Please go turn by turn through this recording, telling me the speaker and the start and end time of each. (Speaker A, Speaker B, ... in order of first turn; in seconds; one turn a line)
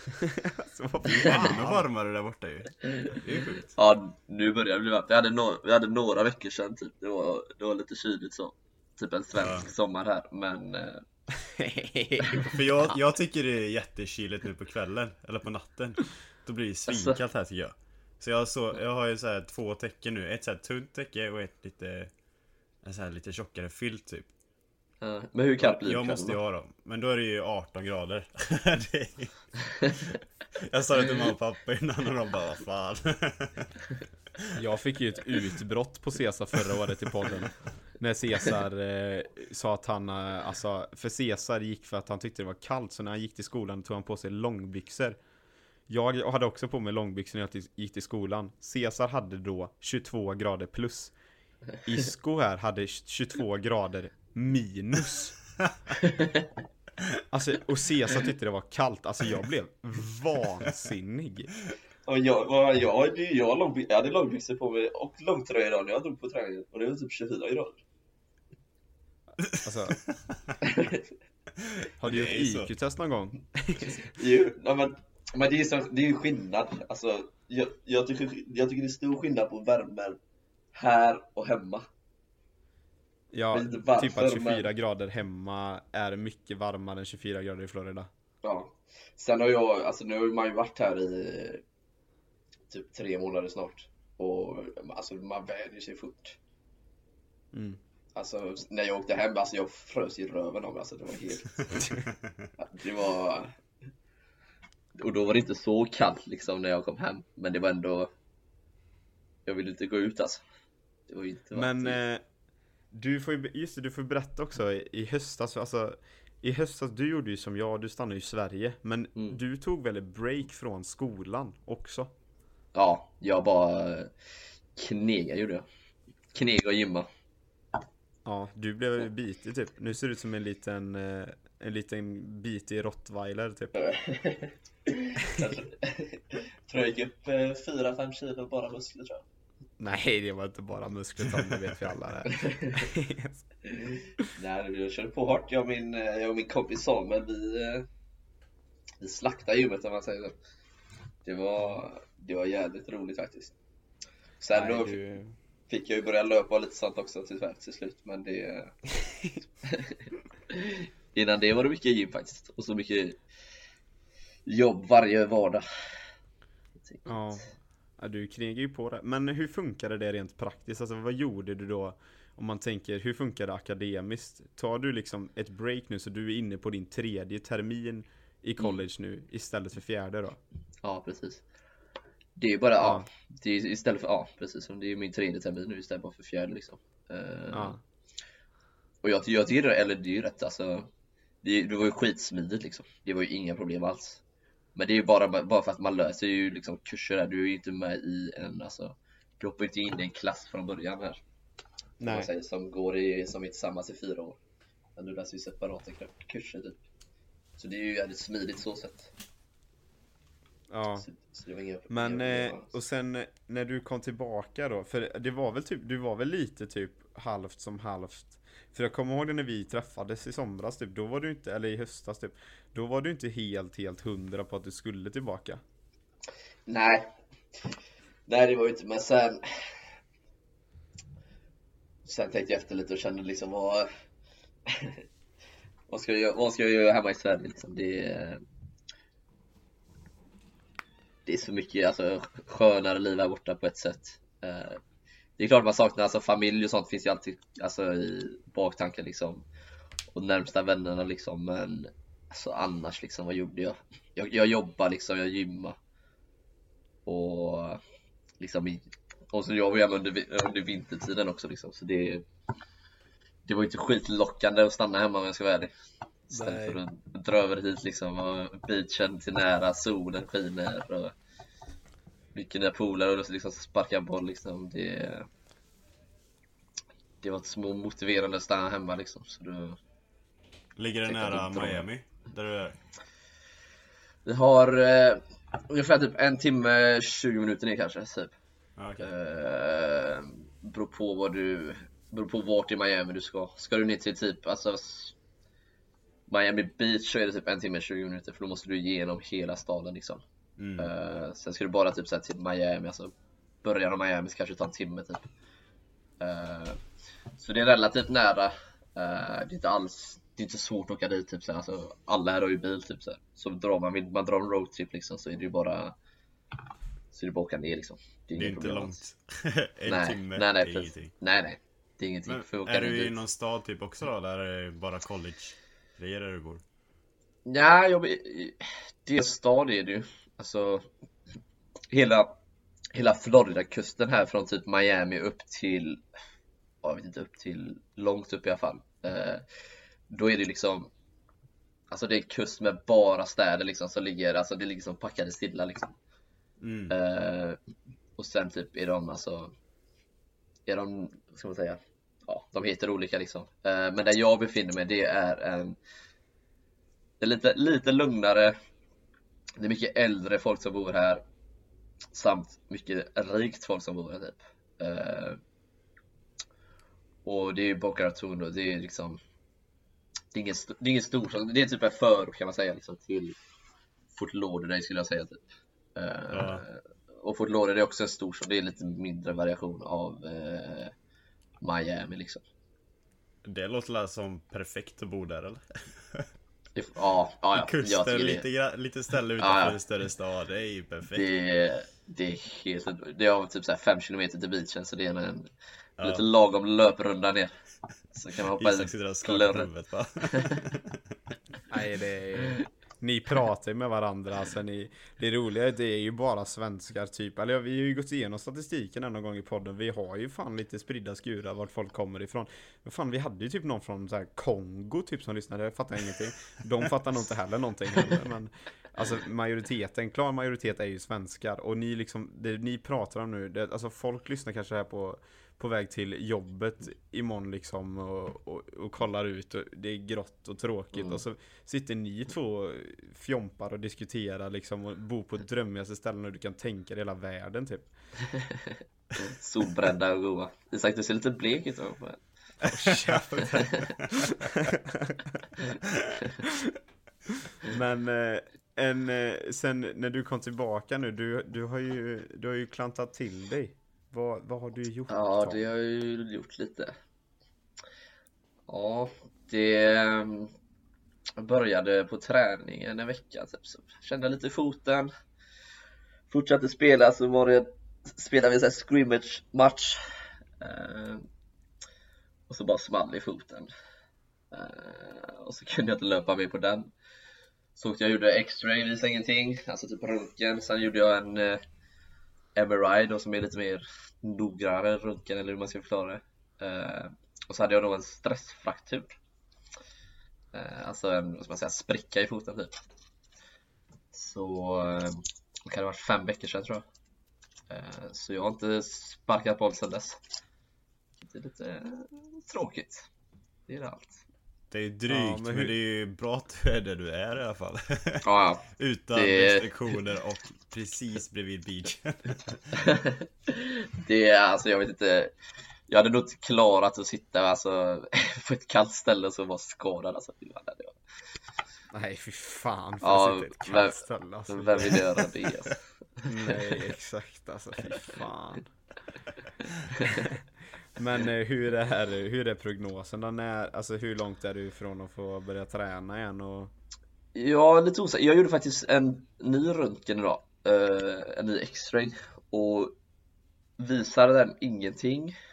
Speaker A: 0.2-1.8
Speaker B: 1.1-3.8
Speaker C: 3.7-11.0
Speaker B: 9.4-9.7
Speaker A: 11.4-12.6
Speaker B: 12.3-22.1
Speaker C: 16.9-17.2
Speaker B: 22.8-24.3
Speaker C: 25.0-26.4
Speaker B: 25.6-33.7
Speaker A: 34.5-45.2
Speaker A: 45.9-51.1
Speaker A: 51.8-55.3
Speaker C: 56.0-56.3
Speaker A: 57.3-61.5
Speaker C: 62.1-67.8
Speaker B: 69.4-70.1
Speaker A: 69.6-70.0
Speaker C: 70.6-71.0
Speaker B: 71.6-72.7
Speaker A: 72.0-74.0
Speaker C: 73.9-80.2
Speaker C: 80.7-81.8
Speaker A: 83.3-88.1
Speaker C: 83.5-84.6
Speaker C: 88.4-91.6
Speaker C: 92.7-96.4
Speaker A: 97.5-97.8
Speaker C: 98.2-101.8
Speaker C: 102.6-103.6
Speaker C: 105.0-108.1
Speaker C: 109.5-110.4
Speaker C: 111.1-112.0
Speaker A: 111.5-112.2
Speaker A: 112.9-122.1
Speaker C: 122.7-124.1
Speaker C: 124.7-125.7
Speaker C: 126.3-127.1
Speaker A: 128.2-133.7
Speaker C: 133.8-139.2
Speaker A: 139.8-143.4
Speaker C: 142.3-142.8
Speaker C: 143.7-147.9
Speaker C: 149.0-150.3
Speaker C: 151.2-153.5
Speaker C: 154.4-155.0
Speaker A: 154.5-155.3
Speaker C: 155.7-158.7
Speaker C: 159.6-163.2
Speaker C: 164.5-165.7
Speaker C: 166.8-167.4
Speaker A: 167.1-167.5
Speaker A: 168.0-180.4
Speaker C: 180.8-181.4
Speaker C: 182.3-187.8
Speaker A: 182.8-183.1
Speaker A: 187.5-187.8
Speaker C: 189.0-190.9
Speaker C: 191.4-194.2
Speaker C: 194.7-201.2
Speaker A: 202.0-202.3
Speaker C: 202.0-204.4
Speaker C: 205.0-206.8
Speaker C: 207.6-209.1
Speaker A: 210.7-211.0
Speaker C: 211.0-212.7
Speaker A: 211.9-225.6
Speaker C: 226.7-227.1
Speaker C: 228.3-229.7
Speaker C: 232.0-233.9
Speaker C: 234.7-235.0
Speaker C: 235.9-238.4
Speaker C: 241.2-244.8
Speaker C: 245.4-249.4
Speaker C: 250.1-255.8
Speaker C: 257.1-257.8
Speaker C: 258.4-262.2
Speaker C: 263.4-265.7
Speaker C: 266.3-271.1
Speaker A: 266.3-266.8
Speaker C: 272.3-275.3
Speaker C: 277.2-279.8
Speaker B: 280.8-282.8
Speaker C: 281.1-281.8
Speaker C: 284.2-288.3
Speaker B: 288.8-289.1
Speaker C: 289.0-295.1
Speaker C: 296.3-300.2
Speaker B: 300.6-300.9
Speaker C: 300.8-305.3
Speaker C: 306.2-315.9
Speaker C: 317.1-319.0
Speaker B: 318.4-321.1
Speaker C: 319.9-323.2
Speaker B: 322.3-326.6
Speaker C: 327.4-330.9
Speaker C: 331.9-332.3
Speaker C: 332.9-336.0
Speaker C: 336.8-339.4
Speaker C: 340.1-340.9
Speaker C: 341.9-345.9
Speaker B: 346.6-346.9
Speaker C: 346.9-347.6
Speaker C: 348.2-349.5
Speaker C: 350.7-355.8
Speaker C: 357.2-358.6
Speaker C: 359.6-361.2
Speaker C: 362.1-365.4
Speaker C: 367.2-369.2
Speaker C: 370.3-373.4
Speaker C: 374.1-375.4
Speaker C: 375.9-380.9
Speaker B: 376.3-376.6
Speaker C: 381.6-382.4
Speaker B: 383.4-386.3
Speaker C: 386.8-388.4
Speaker B: 387.5-391.3
Speaker C: 389.4-389.8
Speaker C: 391.1-397.5
Speaker B: 396.0-396.2
Speaker C: 398.1-399.7
Speaker B: 398.6-401.0
Speaker A: 401.7-437.9
Speaker C: 430.9-431.2
Speaker C: 438.3-442.2
Speaker B: 442.6-444.3
Speaker A: 442.7-445.4
Speaker A: 446.4-446.7
Speaker A: 447.6-455.6
Speaker C: 455.1-456.9
Speaker C: 458.7-460.5
Speaker C: 461.4-465.1
Speaker C: 466.3-470.0
Speaker C: 470.6-471.3
Speaker C: 472.5-473.7
Speaker C: 474.5-476.9
Speaker C: 477.8-481.6
Speaker C: 482.6-489.2
Speaker C: 490.5-492.8
Speaker C: 494.1-496.8
Speaker C: 497.7-500.2
Speaker C: 501.2-503.1
Speaker C: 503.7-504.2
Speaker B: 504.7-512.6
Speaker A: 505.1-505.7
Speaker C: 508.2-509.7
Speaker C: 512.8-515.3
Speaker C: 515.9-521.0
Speaker A: 521.9-525.0
Speaker C: 523.0-526.5
Speaker A: 526.2-528.7
Speaker C: 529.9-530.2
Speaker A: 530.0-530.4
Speaker A: 531.0-536.7
Speaker C: 537.3-542.9
Speaker C: 543.8-545.3